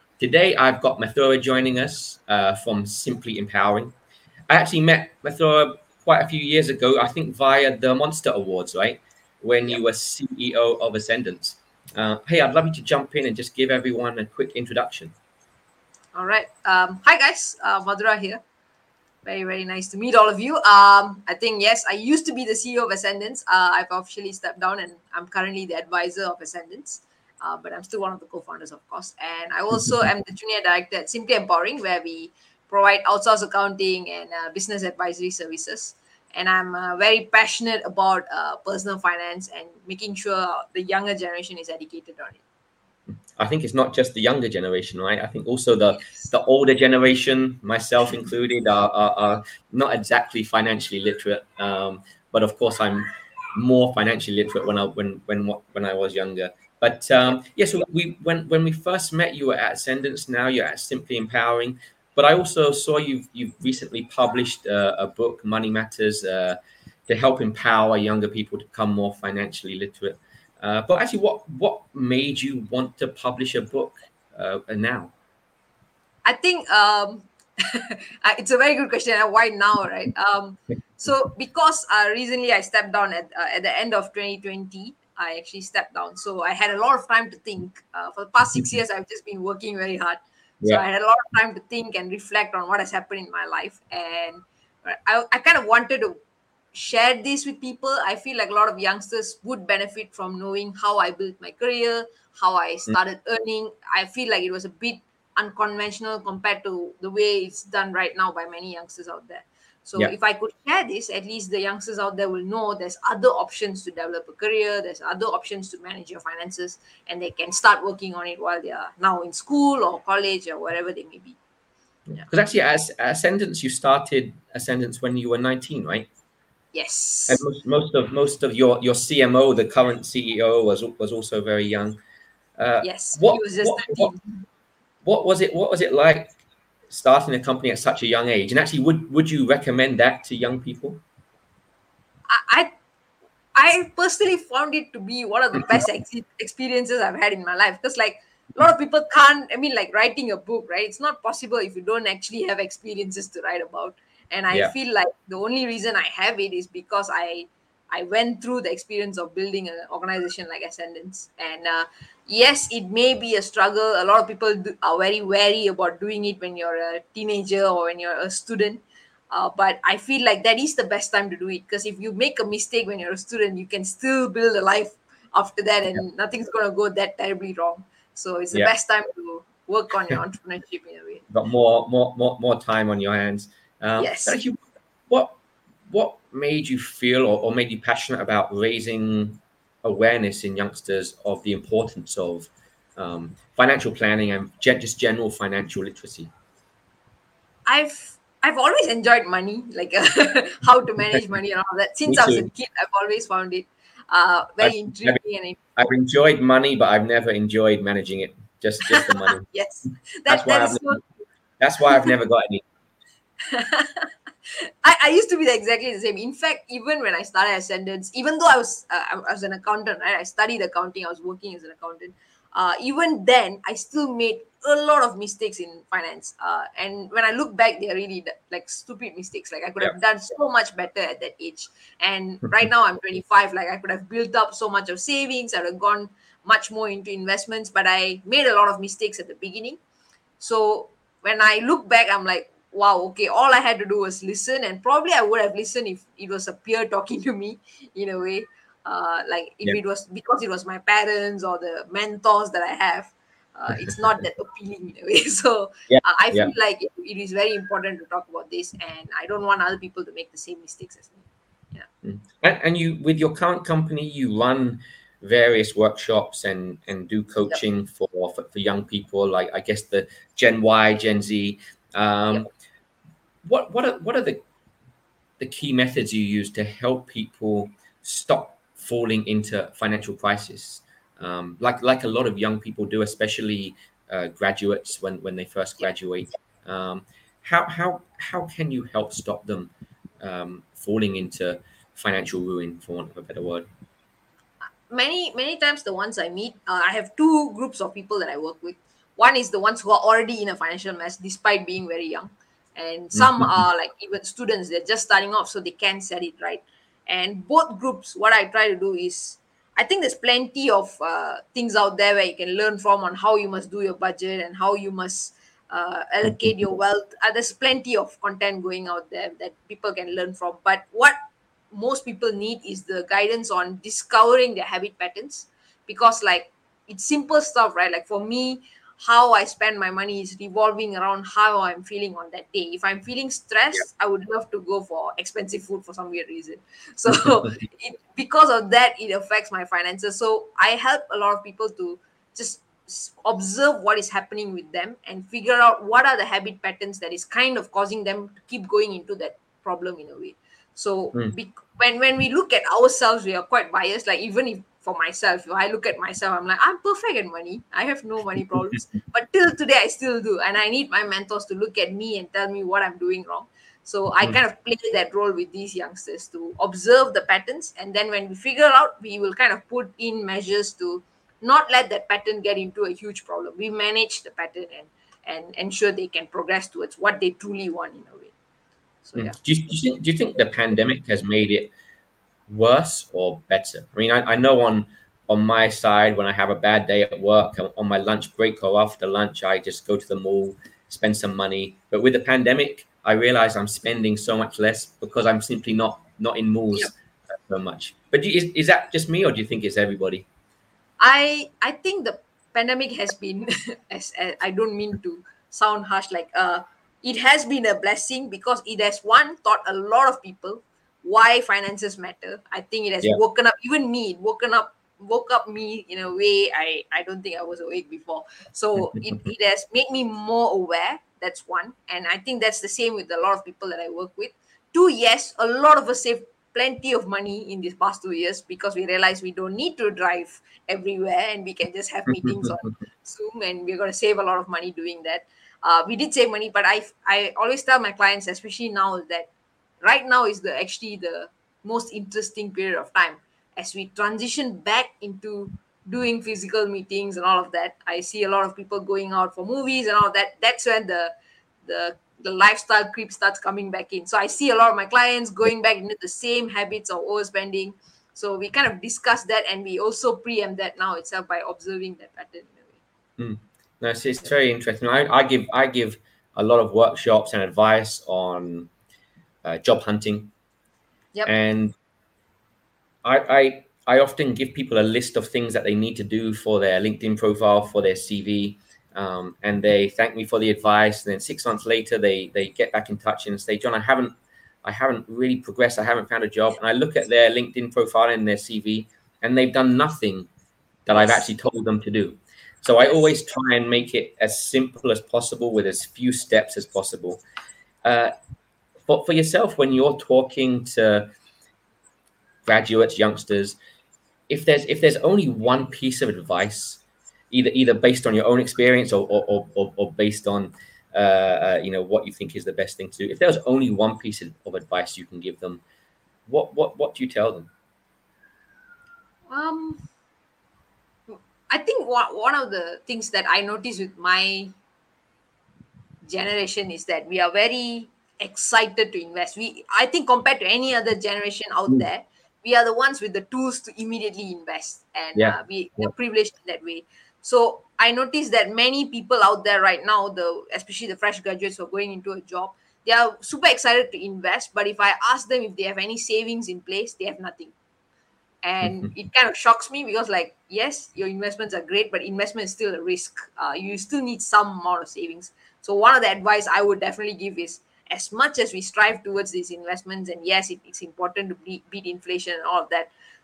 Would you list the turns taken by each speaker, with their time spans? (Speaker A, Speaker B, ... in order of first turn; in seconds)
Speaker A: 0.2-3.9, 4.5-15.2, 43.4-75.1, 122.1-126.1, 127.3-132.0, 132.6-134.1, 135.0-136.3, 136.9-141.0, 181.3-185.4, 185.9-196.3, 202.1-202.5, 204.6-205.2, 205.8-209.5, 210.3-211.0, 211.6-212.7, 255.9-256.5, 262.0-272.5, 273.4-274.4, 275.4-293.7, 303.1-303.5, 379.2-381.7, 382.5-400.3, 432.1-432.5, 463.2-468.7, 469.4-470.3, 471.3-471.7, 473.0-490.3, 490.9-497.2, 497.9-498.1, 498.9-501.1, 502.5-503.6, 504.3-515.6, 516.3-517.5, 535.1-535.9
Speaker B: 16.1-18.4, 19.2-42.4, 76.2-96.2, 96.7-121.4, 126.7-127.4, 132.8-134.2, 142.3-142.7, 143.6-181.2, 184.0-184.4, 197.7-205.6, 209.1-211.0, 213.4-239.8, 240.4-261.9, 294.9-321.2, 321.7-378.3, 379.0-379.4, 401.0-439.3, 439.8-451.1, 451.6-462.8, 519.3-519.8, 521.1-524.5, 526.0-547.5, 548.4-562.9